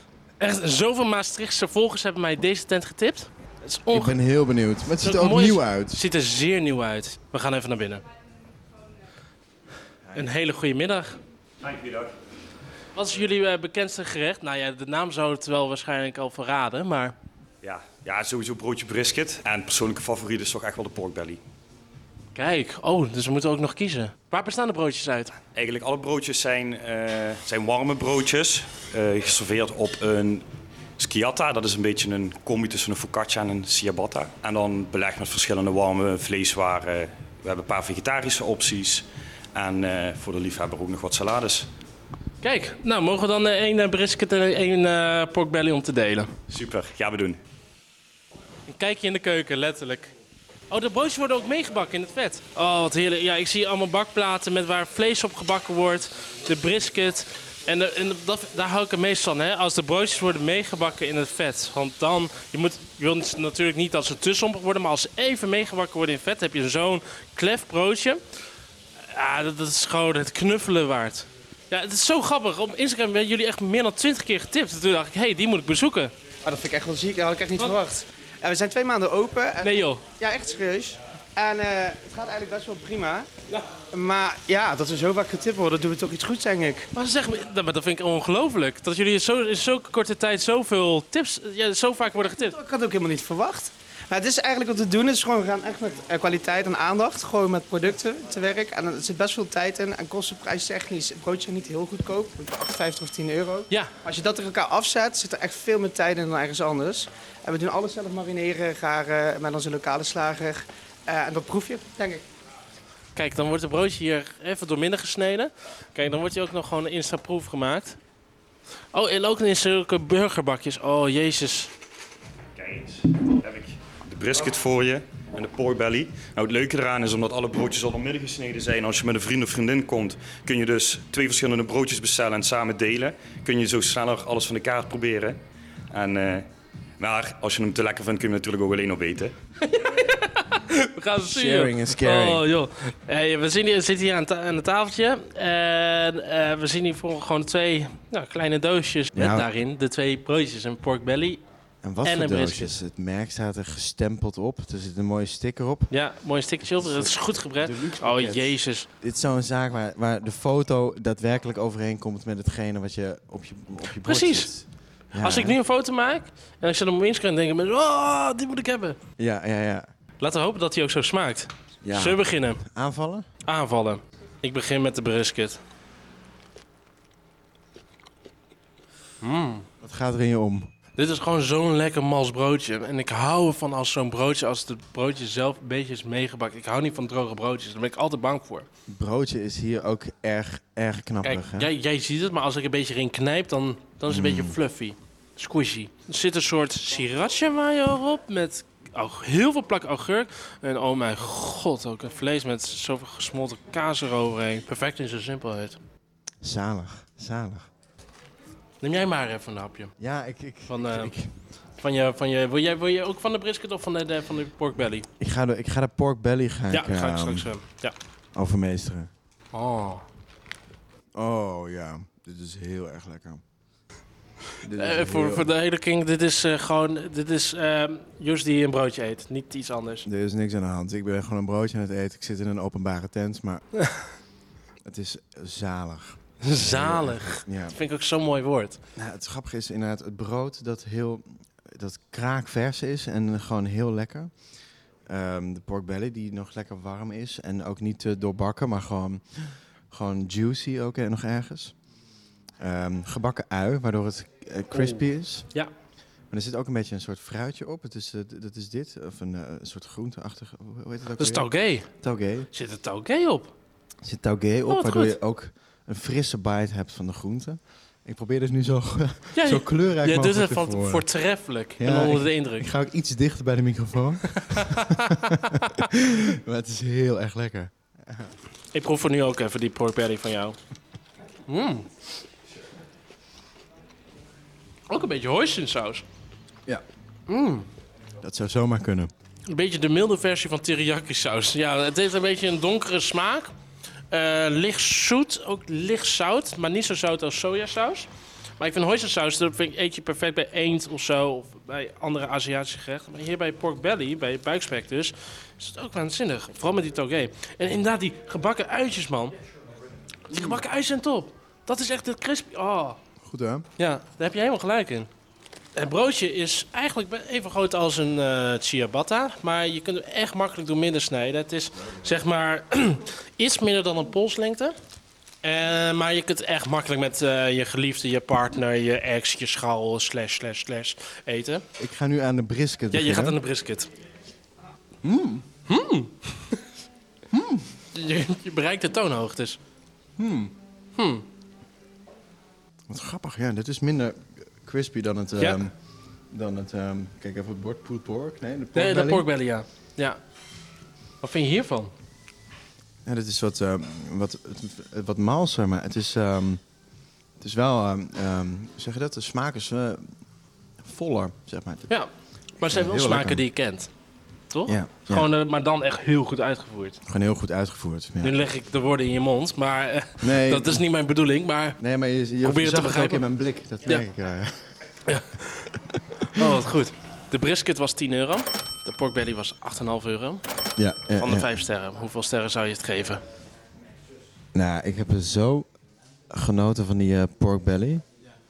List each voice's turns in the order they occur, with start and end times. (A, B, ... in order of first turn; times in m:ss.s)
0:00.4-0:04.2 A
0:03.9-0:06.0 B
0:05.0-0:08.0 A
0:10.1-0:11.2 A
0:11.6-0:12.1 C
0:12.9-0:17.2 A
0:17.6-0:21.4 C
0:22.4-0:25.4 A
0:25.5-0:30.4 C
0:31.0-0:41.7 C
0:42.4-0:46.3 A
0:46.5-0:47.4 C
0:48.7-0:50.1 A
0:50.7-1:08.2 A
1:09.1-1:16.1 A
1:16.4-1:23.3 D
1:19.6-1:20.0 A
1:23.9-1:26.9 D
1:26.9-1:32.6 A
1:32.4-1:52.2 D
1:53.2-1:58.0 A
1:58.9-2:01.7 A
2:02.6-2:15.4 C
2:15.9-2:16.5 C
2:17.0-2:19.3 C
2:19.6-2:31.4 A
2:21.2-2:22.4 B
2:29.1-2:29.5 B
2:31.8-2:35.9 B
2:32.0-2:32.8 A
2:35.9-2:38.9 A
2:36.8-2:45.6 B
2:44.0-2:44.5 A
2:45.2-2:49.0 A
2:49.2-2:49.9 B
2:50.2-2:52.6 A
2:51.8-2:53.3 B
2:53.4-2:55.6 A
2:59.2-2:59.6 A
2:59.8-3:00.7 B
3:01.0-3:08.7 A
3:08.9-3:11.7 B
3:11.2-3:25.8 A
3:14.1-3:14.6 B
3:26.4-3:27.7 B
3:28.8-3:29.9 A
3:30.0-3:31.3 B
3:30.7-3:31.1 A
3:31.8-3:35.1 A
3:35.2-3:37.5 B
3:36.7-3:37.9 A
3:38.4-3:39.1 B
3:39.5-3:40.0 A
3:41.1-3:43.4 B
3:44.6-3:45.5 B
3:44.8-3:50.0 A
3:50.0-3:53.6 B
3:54.8-3:57.8 B
3:56.4-3:58.8 A
3:59.0-4:04.3 B
4:05.1-4:11.7 B
4:12.6-4:15.5 B
4:14.7-4:15.0 A
4:16.3-4:21.5 B
4:21.2-4:21.9 A
4:22.0-4:22.5 B
4:22.5-4:23.5 A
4:24.0-4:31.0 B
4:24.7-4:25.1 A
4:29.4-4:32.7 A
4:31.8-4:38.3 B
4:34.4-4:35.2 A
4:38.7-4:40.6 A
4:41.5-4:41.9 A
4:44.9-4:46.0 A
4:47.3-4:47.7 A
4:48.2-4:49.1 B
4:49.5-4:53.5 A
4:54.1-4:58.1 A
4:58.6-5:09.4 A
5:10.3-5:13.0 A
5:13.2-5:13.7 B
5:13.8-5:15.1 A
5:15.8-5:24.8 A
5:25.4-5:31.6 A
5:31.8-5:33.4 B
5:32.9-5:33.9 A
5:35.0-5:35.5 B
5:35.7-5:36.6 A
5:37.3-5:37.7 B
5:37.9-5:39.6 A
5:40.2-5:40.5 B
5:41.0-5:41.2 A
5:42.9-5:45.7 B
5:46.3-5:49.2 B
5:48.8-5:50.2 A
5:51.2-5:51.9 A
5:53.0-5:56.6 B
5:57.4-6:00.1 B
6:00.8-6:01.9 B
6:01.9-6:03.9 A
6:02.6-6:03.4 B
6:04.5-6:07.0 A
6:04.7-6:05.3 B
6:07.0-6:08.4 B
6:08.2-6:11.8 A
6:10.2-6:10.8 B
6:11.8-6:14.7 B
6:12.4-6:13.2 A
6:15.1-6:15.7 A
6:16.3-6:20.4 A
6:20.8-6:21.5 B
6:21.2-6:23.2 A
6:24.5-6:25.7 B
6:26.3-6:28.0 B